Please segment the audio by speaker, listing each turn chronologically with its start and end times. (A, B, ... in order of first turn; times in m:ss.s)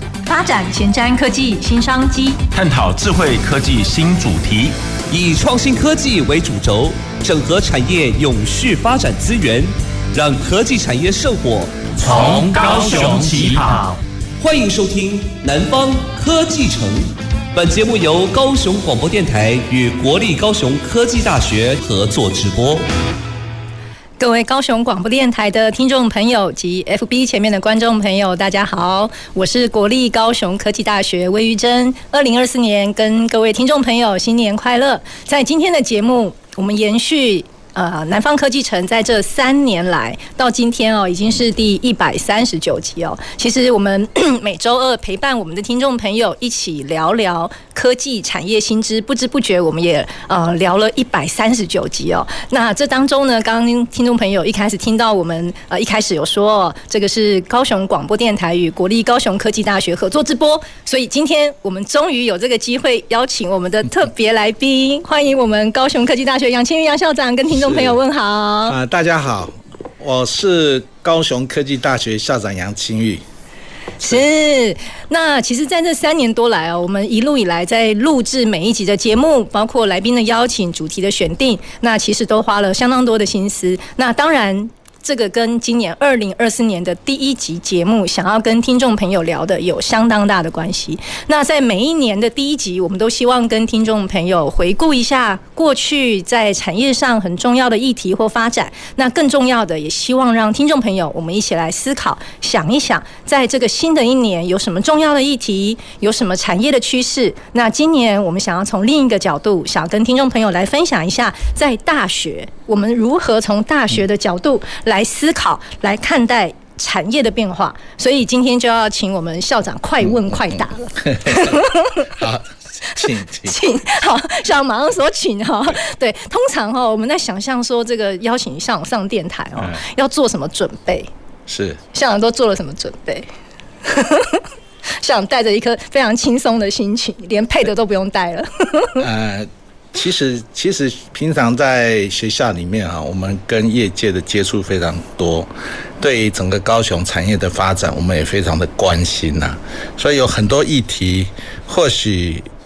0:00.3-0:02.4 A
0:02.5-0:04.7 B
0:05.1-0:13.3 C
0:12.0-0:14.0 B
0:14.4-0:22.8 C
0:24.2-1:08.8 A
1:07.5-1:08.0 D
1:08.6-1:13.2 D
1:14.0-2:02.1 A
2:01.0-2:01.6 D
2:02.2-2:03.6 D
2:03.0-2:11.1 A
2:11.5-2:11.8 D
2:11.9-2:13.2 A
2:13.8-2:14.4 A
2:15.0-2:19.0 A
2:19.0-2:32.5 D